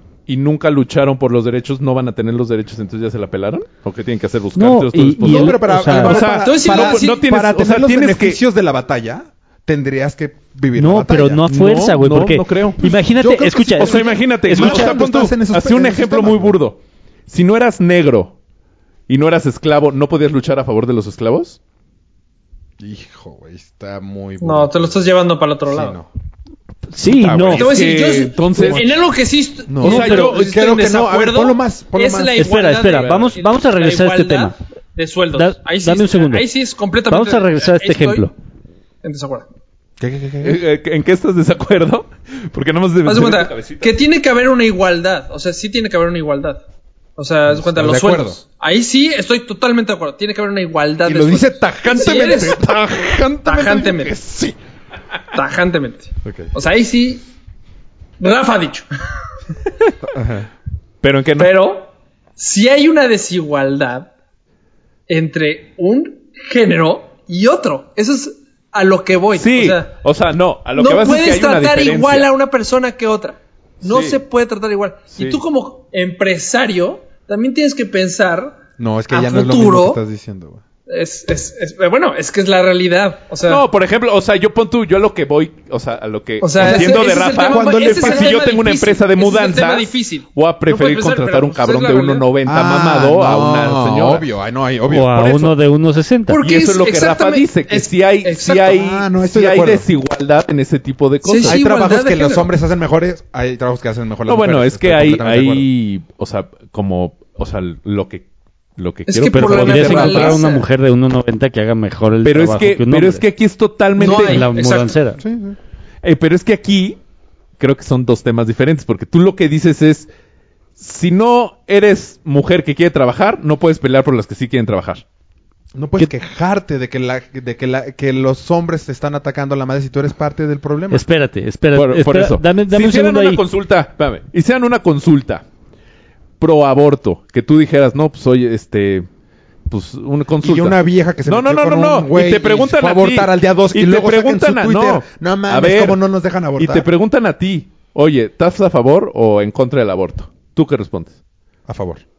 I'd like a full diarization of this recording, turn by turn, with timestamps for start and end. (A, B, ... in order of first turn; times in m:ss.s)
0:00.3-0:08.4 A
0:04.6-0:06.2 B
0:05.2-0:11.4 C
0:05.9-0:07.2 D
0:10.8-0:15.0 B
0:11.5-0:12.8 A
0:12.8-0:16.6 C
0:13.8-0:18.4 A
0:19.1-0:21.6 A
0:22.8-0:25.0 C
0:24.4-0:26.0 D
0:25.7-0:26.1 C
0:26.9-0:27.7 B
0:27.0-0:29.0 A
0:27.5-0:38.3 D
0:29.7-0:32.5 C
0:29.8-0:30.6 A
0:29.8-0:30.3 B
0:32.4-0:34.5 B
0:32.9-0:33.3 A
0:35.3-0:36.5 B
0:37.1-0:38.3 B
0:39.0-0:39.5 D
0:40.0-0:40.6 C
0:40.4-0:44.0 A
0:43.0-0:46.6 D
0:47.2-0:52.6 D
0:47.5-0:48.4 C
0:51.0-0:54.6 C
0:53.4-0:54.2 D
0:55.3-0:57.3 D
0:56.2-0:56.5 C
0:58.2-0:58.9 D
1:00.0-1:00.5 C
1:01.0-1:01.6 A
1:01.4-1:04.1 D
1:05.1-1:09.9 D
1:09.4-1:12.3 A
1:10.8-1:20.0 D
1:13.8-1:14.2 A
1:15.2-1:15.4 A
1:18.8-1:20.6 C
1:20.9-1:23.6 D
1:23.5-1:34.3 A
1:26.4-1:32.3 D
1:26.6-1:28.5 C
1:32.4-1:35.4 C
1:34.9-1:36.4 B
1:35.1-1:35.5 A
1:36.3-1:38.7 D
1:36.4-1:41.6 A
1:38.6-1:39.9 C
1:41.2-1:42.4 D
1:41.4-1:45.7 C
1:44.3-1:48.3 A
1:48.8-1:50.4 A
1:49.1-1:50.6 D
1:49.3-1:53.2 B
1:52.2-1:54.5 A
1:54.0-1:54.9 D
1:54.0-1:55.2 B
1:55.2-1:55.6 C
1:56.0-1:57.0 A
1:57.6-2:00.1 A
2:00.8-2:05.0 A
2:05.7-2:11.0 C
2:10.9-2:13.4 B
2:11.7-2:15.4 A
2:16.4-2:19.1 A
2:19.7-2:26.0 A
2:20.4-2:26.9 C
2:26.6-2:31.2 A
2:31.7-2:32.0 C